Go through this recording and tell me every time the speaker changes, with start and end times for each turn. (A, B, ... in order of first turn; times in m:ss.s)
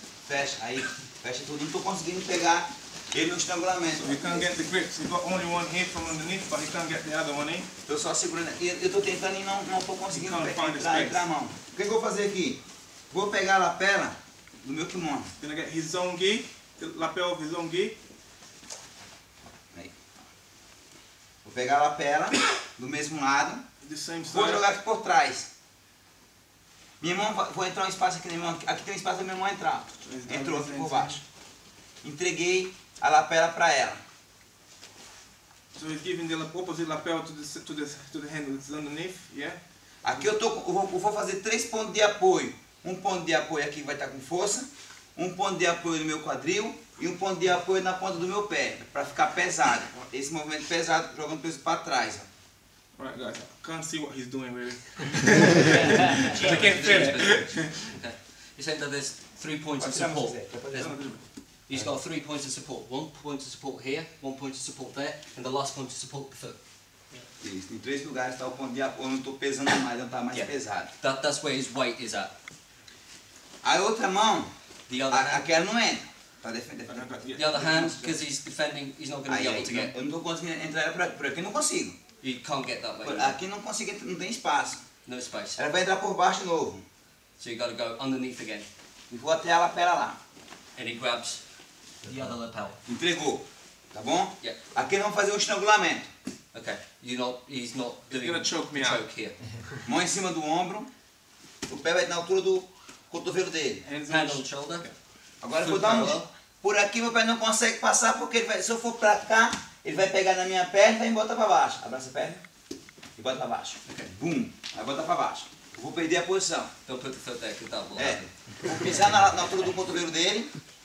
0:00.3-0:04.4 A
0:04.0-0:07.7 B
0:07.8-0:15.3 A
0:10.1-0:11.2 B
0:15.4-0:18.0 B
0:21.4-0:23.6 A
0:23.8-0:24.7 B
0:24.2-0:25.5 A
0:27.0-0:31.2 A
0:30.0-0:31.2 B
0:32.0-0:34.0 A
0:35.7-0:39.6 B
0:40.0-0:52.3 A
0:53.0-0:57.8 B
0:55.5-1:06.6 C
0:59.8-1:01.2 A
1:00.7-1:01.2 B
1:07.4-1:10.9 A
1:10.3-1:12.3 C
1:13.6-1:14.5 A
1:14.9-1:15.5 C
1:15.1-1:17.2 A
1:16.8-1:18.2 B
1:17.3-1:19.9 C
1:19.3-1:22.0 A
1:22.2-1:23.4 C
1:23.0-1:24.8 A
1:25.0-1:25.6 C
1:25.6-1:26.8 A
1:27.4-1:28.7 C
1:29.1-1:30.2 A
1:30.7-1:31.4 C
1:32.0-1:32.8 C
1:32.0-1:32.3 A
1:32.8-1:36.1 A
1:36.5-1:39.6 C
1:38.1-1:39.0 B
1:39.8-1:40.9 A
1:41.6-1:43.9 A
1:43.8-1:44.9 B
1:44.1-1:44.9 C
1:45.4-1:52.4 A
1:45.5-1:46.2 C
1:53.2-1:56.7 A
1:53.9-1:54.1 C
1:56.8-1:58.9 C
1:58.0-2:00.6 A